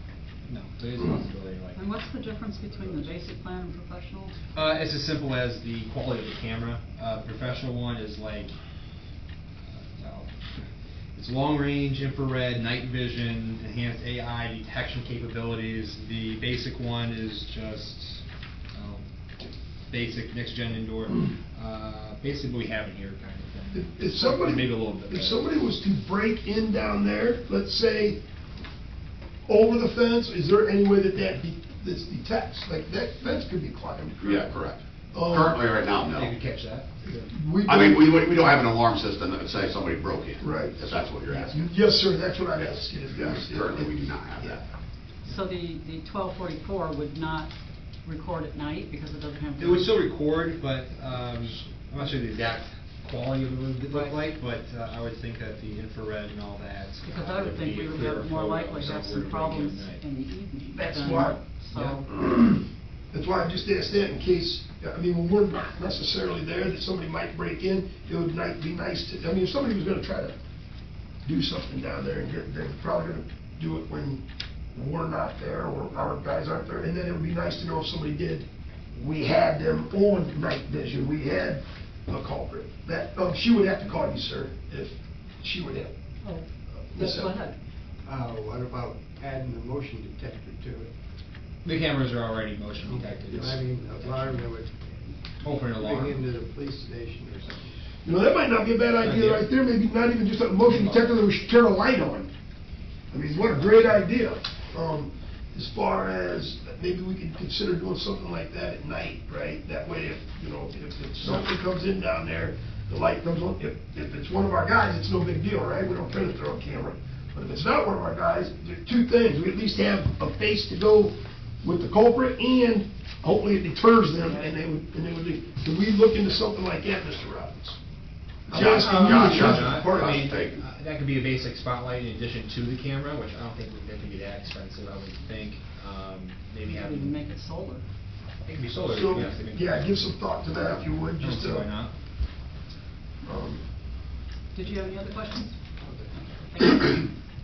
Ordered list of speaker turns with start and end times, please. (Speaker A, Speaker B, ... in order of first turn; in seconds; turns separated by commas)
Speaker A: 0.5-1.8, Speaker B: 1.8-4.4, Speaker A: 2.8-3.0, Speaker A: 4.5-8.6, Speaker A: 9.6-25.5, Speaker C: 23.7-28.2, Speaker C: 29.5-34.5, Speaker D: 34.2-36.4, Speaker C: 35.1-35.6, Speaker A: 36.0-37.0, Speaker C: 37.3-38.4, Speaker D: 37.6-41.7, Speaker C: 40.4-44.6, Speaker D: 42.6-44.6, Speaker B: 45.2-50.0, Speaker A: 49.6-60.0, Speaker B: 53.9-54.2, Speaker B: 57.0-62.1, Speaker C: 60.7-61.4, Speaker A: 61.7-62.0, Speaker C: 62.1-70.4, Speaker C: 71.2-85.9, Speaker B: 86.2-87.6, Speaker C: 86.7-87.4, Speaker E: 88.0-91.0, Speaker A: 91.6-94.5, Speaker E: 92.8-97.9, Speaker A: 95.4-96.2, Speaker C: 98.0-102.3, Speaker A: 99.0-99.5, Speaker A: 100.6-101.2, Speaker C: 103.1-127.8, Speaker B: 124.2-124.6, Speaker D: 128.5-130.7, Speaker C: 128.5-130.2, Speaker A: 128.6-137.2, Speaker B: 136.6-137.8, Speaker A: 138.4-140.1, Speaker C: 138.8-141.7, Speaker A: 141.2-142.0, Speaker C: 143.2-143.7, Speaker B: 144.5-147.1, Speaker A: 144.6-146.1